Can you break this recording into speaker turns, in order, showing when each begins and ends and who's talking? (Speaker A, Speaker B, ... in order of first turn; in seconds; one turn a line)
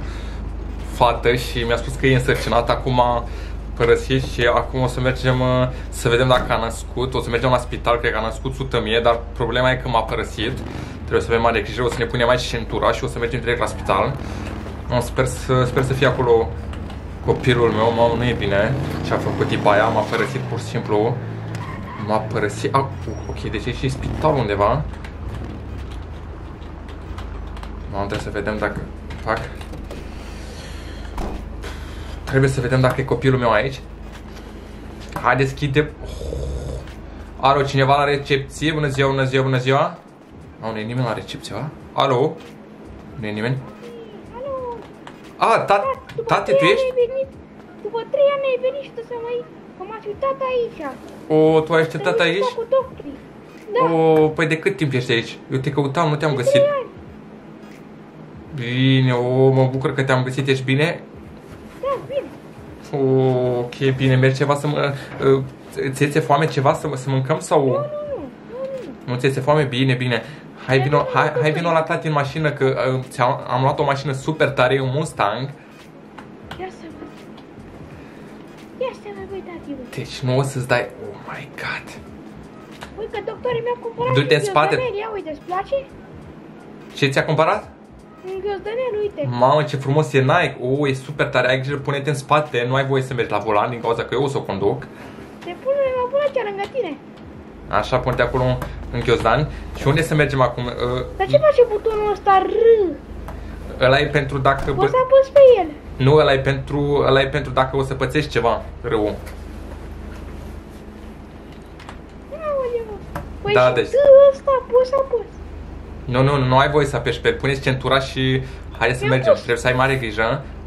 Speaker A: 0.8-14.2
Speaker A: 14.9-16.5
Speaker A: 17.2-21.2
Speaker A: 22.0-24.9
Speaker A: 27.9-29.5
Speaker A: 32.2-33.8
Speaker A: 35.2-36.8
Speaker A: 37.4-40.0
Speaker A: 40.6-42.4
Speaker A: 43.1-43.6
Speaker B: 43.6-44.9
Speaker A: 45.4-46.9
Speaker B: 45.8-51.0
Speaker A: 51.3-52.5
Speaker B: 51.7-54.0
Speaker A: 53.8-56.7
Speaker B: 56.3-56.9
Speaker A: 58.5-61.0
Speaker B: 61.8-62.4
Speaker A: 62.9-67.9
Speaker B: 67.6-69.0
Speaker A: 69.0-75.5
Speaker B: 70.7-72.1
Speaker B: 76.6-77.2
Speaker B: 78.8-79.9
Speaker A: 79.9-82.0
Speaker B: 83.0-85.9
Speaker A: 84.0-84.8
Speaker A: 86.9-87.7
Speaker B: 88.2-89.3
Speaker A: 89.2-94.9
Speaker B: 95.4-97.0
Speaker A: 97.7-101.4
Speaker B: 101.2-103.0
Speaker A: 103.8-105.0
Speaker B: 104.7-105.8
Speaker A: 106.0-109.2
Speaker B: 112.3-115.4
Speaker A: 113.5-114.0
Speaker A: 116.1-120.4
Speaker B: 119.0-119.5